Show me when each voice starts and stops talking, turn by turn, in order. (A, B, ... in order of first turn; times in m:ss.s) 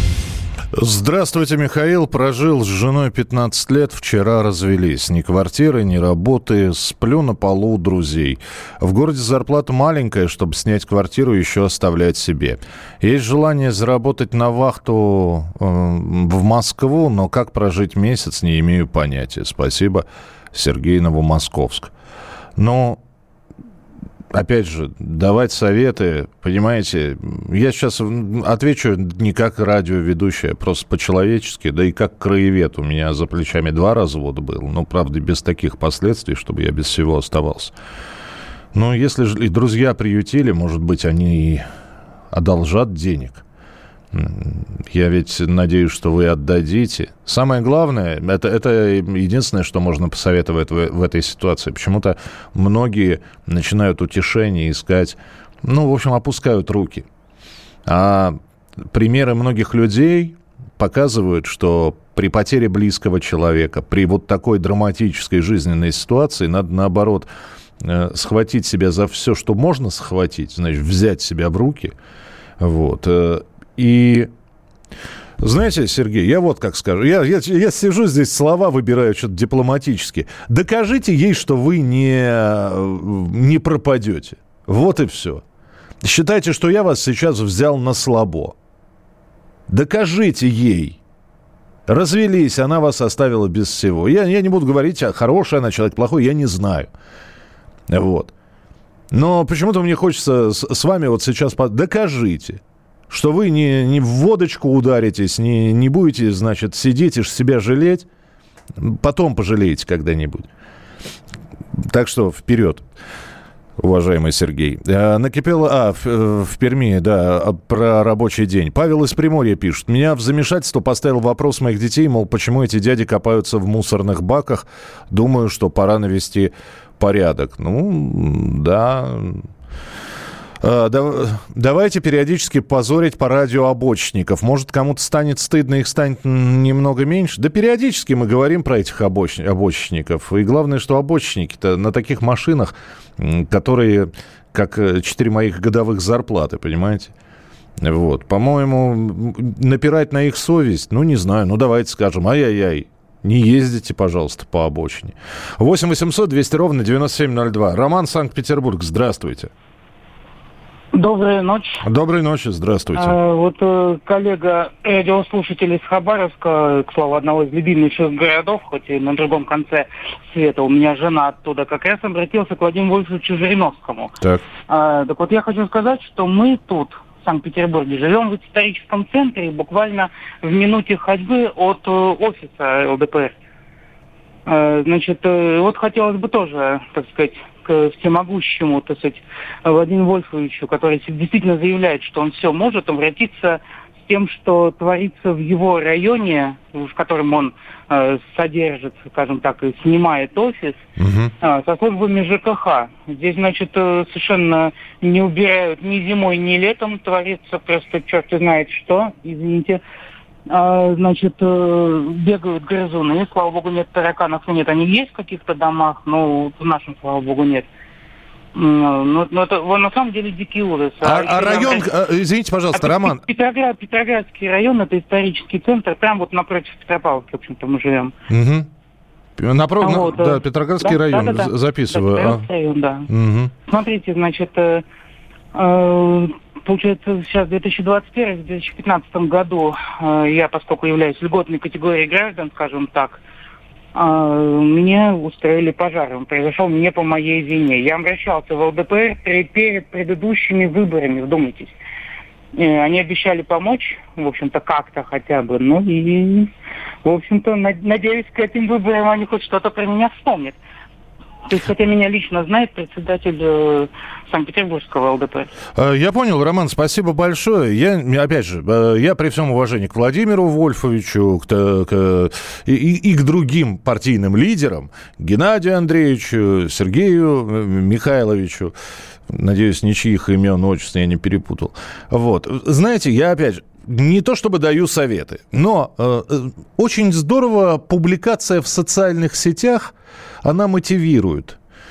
0:00.7-0:21.9 A
0:22.6-0:23.0 A
0:24.3-0:37.7 A
0:38.7-0:41.6 A
0:42.3-0:43.4 A
0:44.1-0:57.0 A
0:57.9-1:07.3 A
1:07.8-1:11.9 A
1:12.6-1:14.3 A
1:15.4-1:25.4 A
1:26.0-1:28.5 A
1:29.7-1:31.0 A
1:31.9-1:36.9 A
1:37.9-1:38.3 A
1:39.1-1:48.0 A
1:48.8-1:50.5 A
1:51.8-1:52.8 A
1:53.8-2:09.5 A
2:10.6-2:27.1 A
2:27.8-2:39.5 A
2:40.9-2:41.8 B
2:41.8-2:43.2 A
2:42.9-2:54.2 B
2:54.7-3:03.3 B
3:04.4-3:20.8 B
3:21.0-3:21.3 A
3:21.4-3:29.8 B
3:30.5-3:37.7 B
3:38.5-3:41.9 B
3:41.0-3:43.2 A
3:42.7-3:48.1 B
3:48.3-3:48.7 A
3:49.4-3:52.4 A
3:49.8-3:53.1 B
3:53.1-3:53.5 A
3:53.7-3:54.8 B
3:55.5-4:03.2 B
4:03.9-4:11.7 B
4:12.5-4:16.5 B
4:17.0-4:20.6 B
4:21.5-4:25.5 B
4:25.8-4:38.7 A
4:39.3-4:51.6 A